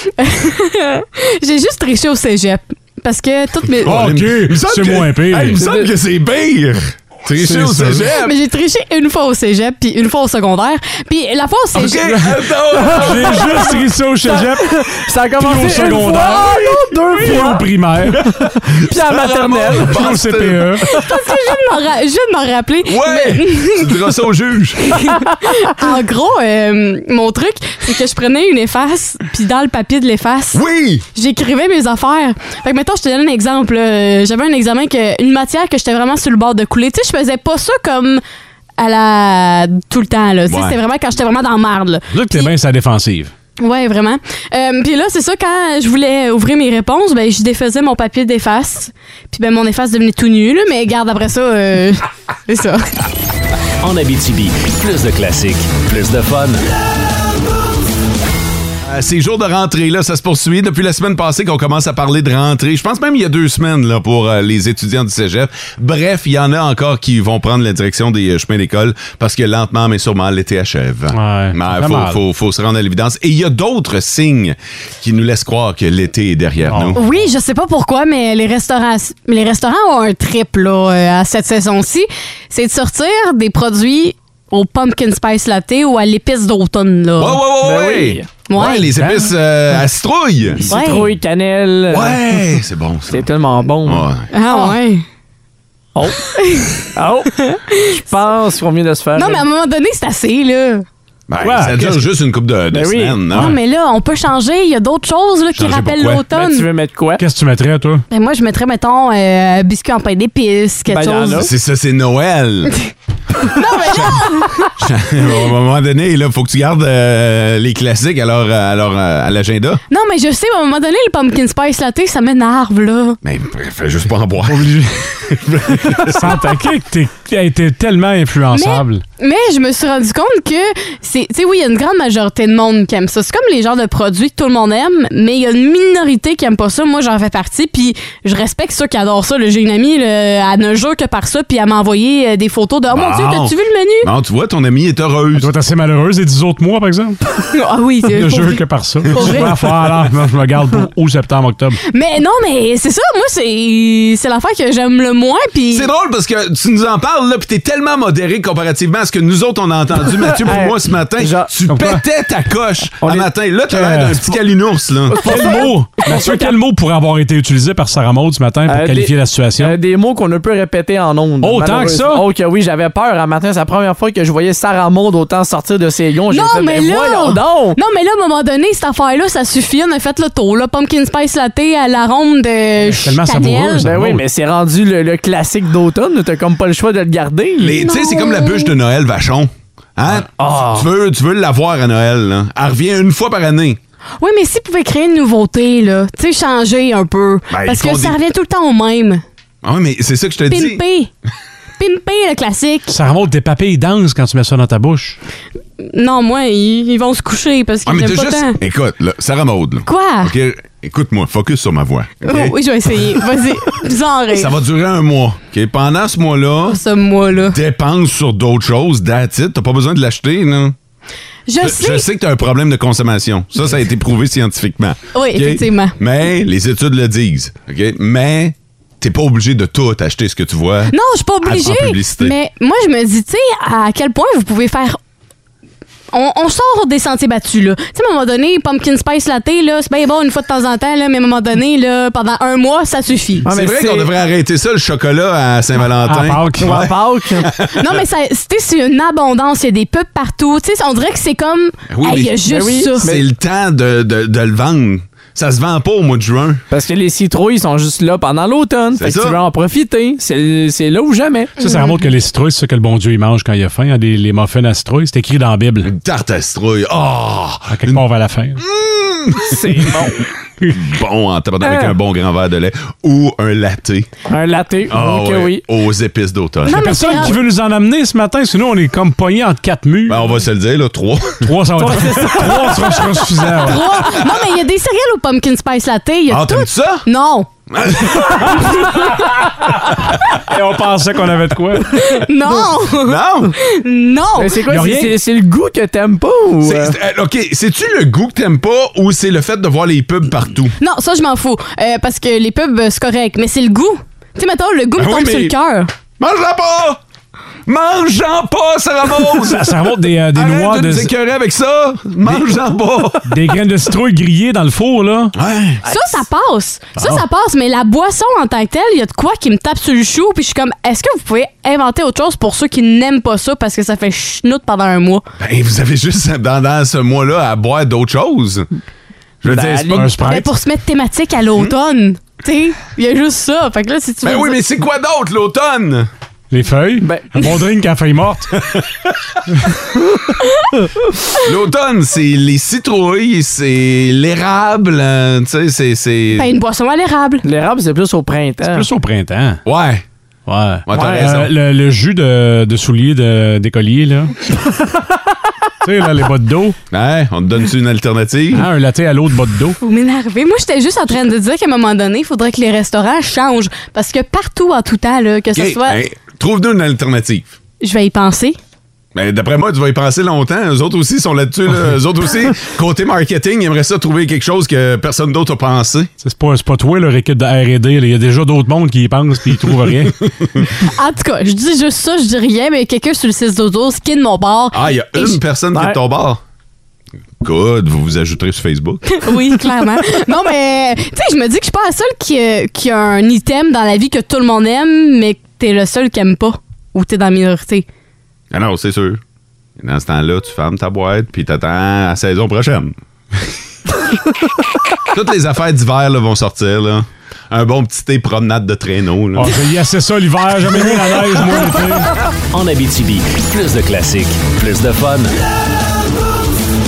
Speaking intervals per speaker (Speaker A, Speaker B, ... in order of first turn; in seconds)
Speaker A: 0.2-4.0, 8.2-12.2, 20.9-23.9, 24.9-30.6, 31.1-38.2, 38.8-42.5, 43.6-52.9, 77.0-87.4, 88.5-88.9, 90.7-91.0, 94.3-95.0, 96.3-96.8, 97.4-98.0, 99.2-100.9, 103.3-106.7, 108.1-111.5, 113.5-114.7, 119.9-123.2, 128.5-144.1, 147.5-149.6, 151.9-155.9, 176.3-183.9, 187.8-188.7, 194.2-199.2, 200.5-201.1, 201.8-202.9, 205.8-208.6, 209.8-210.3, 212.2-214.5, 216.7-217.6, 221.5-222.1, 225.1-226.0, 230.9-235.0, 236.1-243.4, 247.8-253.1, 261.6-261.9, 276.6-277.4, 283.6-287.5, 291.9-294.6, 300.8-305.9, 315.9-325.2, 330.2-334.6, 340.4-340.7, 346.4-347.4, 359.8-366.0, 367.8-368.6, 380.8-385.4, 389.1-397.9
Speaker B: 3.9-5.6, 7.3-8.1, 12.9-14.8, 15.3-18.2, 19.9-20.9, 42.1-43.3, 71.1-72.2, 76.7-77.0, 89.0-89.3, 101.4-102.1, 107.2-108.0, 124.5-124.8, 125.9-129.0, 145.3-147.2, 148.1-151.8, 161.7-162.0, 163.7-164.3, 165.2-169.8, 171.4-172.2, 182.9-184.2, 202.9-205.2, 246.0-246.9, 261.6-265.9, 267.7-268.6, 276.7-280.3, 281.4-283.9, 290.5-292.0, 294.7-295.1, 309.4-311.1, 312.2-312.5, 313.2-315.4, 317.0-317.2, 329.9-330.5, 336.5-338.5, 348.6-349.6, 350.5-354.3, 355.8-356.8, 358.5-359.8, 376.2-380.1, 409.4-412.1
Speaker C: 3.9-8.3, 11.7-13.9, 18.9-21.1, 22.8-25.1, 30.5-31.1, 40.5-40.8, 58.8-77.0, 87.2-90.7, 91.9-93.3, 93.8-94.3, 101.3-103.6, 105.5-106.2, 111.4-112.8, 113.8-119.8, 123.2-126.5, 142.9-145.5, 155.7-165.6, 187.6-193.8, 197.5-198.2, 199.6-200.8, 207.9-212.6, 214.3-216.8, 217.5-220.8, 221.6-232.3, 243.5-248.0, 251.9-252.4, 253.0-256.6, 259.0-259.4, 265.8-268.0, 268.6-270.0, 270.7-274.1, 274.9-277.3, 280.1-281.5, 282.2-282.7, 283.5-284.3, 286.3-287.1, 287.7-289.0, 293.0-293.6, 296.6-300.8, 305.0-305.5, 306.2-307.0, 307.7-309.8, 310.4-313.4, 315.4-315.8, 325.4-328.7, 329.4-330.1, 334.2-336.1, 338.7-339.1, 341.4-346.5, 349.6-350.0, 350.9-351.5, 356.9-358.7, 365.6-367.5, 369.1-376.1, 384.7-386.4, 387.4-389.3, 398.5-399.2, 399.8-402.9, 405.1-409.6
Speaker D: 5.6-5.9, 12.8-13.7, 14.3-17.6, 18.9-20.1, 87.6-88.3, 90.7-92.2, 93.1-94.7, 96.0-96.2, 96.9-97.5, 98.0-99.4, 102.7-103.2, 106.3-107.2, 110.9-111.5, 160.2-161.5, 163.0-163.3, 165.2-166.5, 168.7-177.8, 183.8-187.8, 190.4-190.9, 243.4-244.1, 246.6-247.5, 252.5-253.2, 256.7-261.5, 269.4-270.2, 271.6-272.0, 274.3-275.6, 281.8-282.8, 294.4-297.0, 329.4-330.1, 337.0-337.3, 347.4-348.9, 350.9-351.3, 385.7-386.0
Speaker E: 53.8-56.6, 412.5-415.4